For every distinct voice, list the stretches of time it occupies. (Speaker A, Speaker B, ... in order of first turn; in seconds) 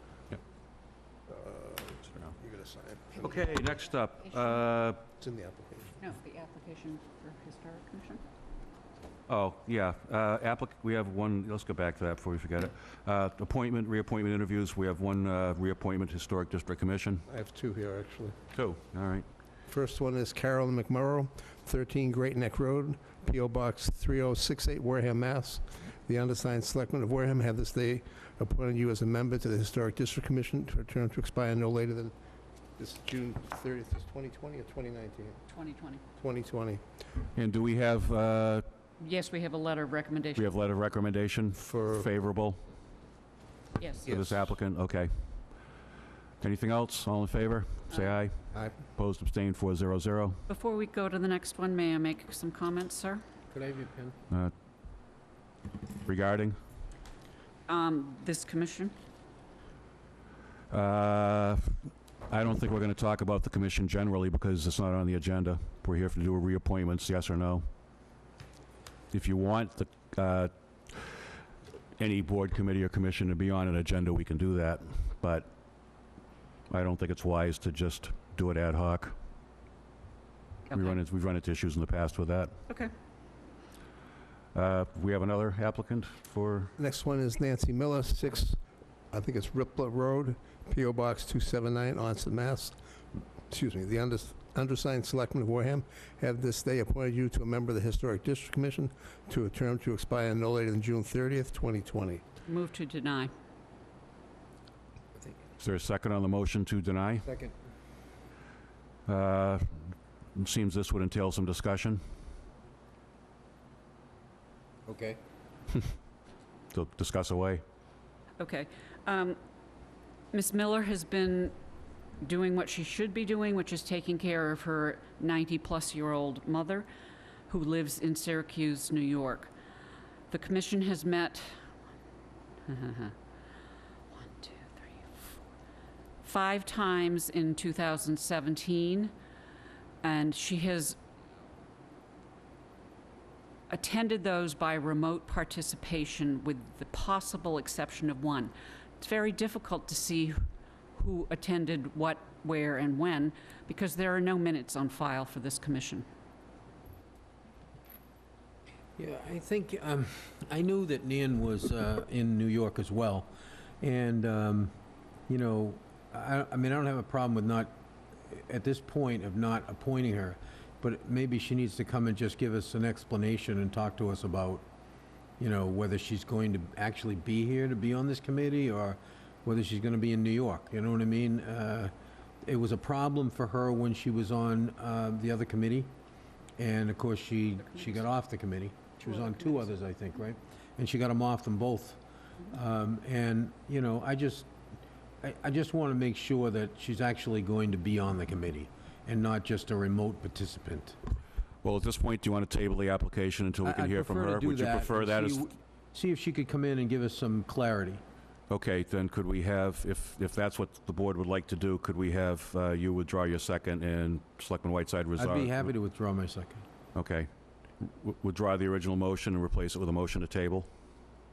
Speaker A: 1.3-3.6, 5.2-6.0, 17.3-18.4, 19.7-32.1, 32.8-35.4, 36.2-36.8, 41.6-42.1, 44.1-44.4, 86.8-88.6, 89.1-92.8, 93.5-102.2
Speaker B: 3.2-5.0, 9.3-17.2, 18.5-19.2, 37.4-38.6, 40.4-42.6, 44.0-45.3, 46.4-50.4, 56.0-56.6, 60.7-67.7, 69.1-71.2, 72.0-75.5, 76.7-79.1, 80.7-82.6, 84.5-86.7, 105.6-107.3, 109.1-112.0, 116.7-117.6, 201.6-205.5, 208.5-215.7, 216.9-217.3, 217.8-220.7
Speaker C: 6.0-8.2, 35.5-36.0, 39.0-40.5, 43.8-44.1, 50.5-53.2, 57.7-59.0, 80.7-81.0, 102.5-103.3, 118.4-119.4, 120.3-121.5, 122.2-126.9, 127.5-129.5, 130.3-131.6, 132.7-133.2, 134.1-135.4, 136.2-139.1, 140.0-141.0, 143.7-150.4, 151.0-156.1, 189.0-189.6
Speaker D: 53.5-54.2, 107.2-107.5, 114.9-115.2, 159.0-164.7, 165.3-167.8, 168.3-174.7, 175.4-181.9, 182.4-185.9, 186.6-194.5, 195.2-201.0, 203.6-208.0, 215.2-216.7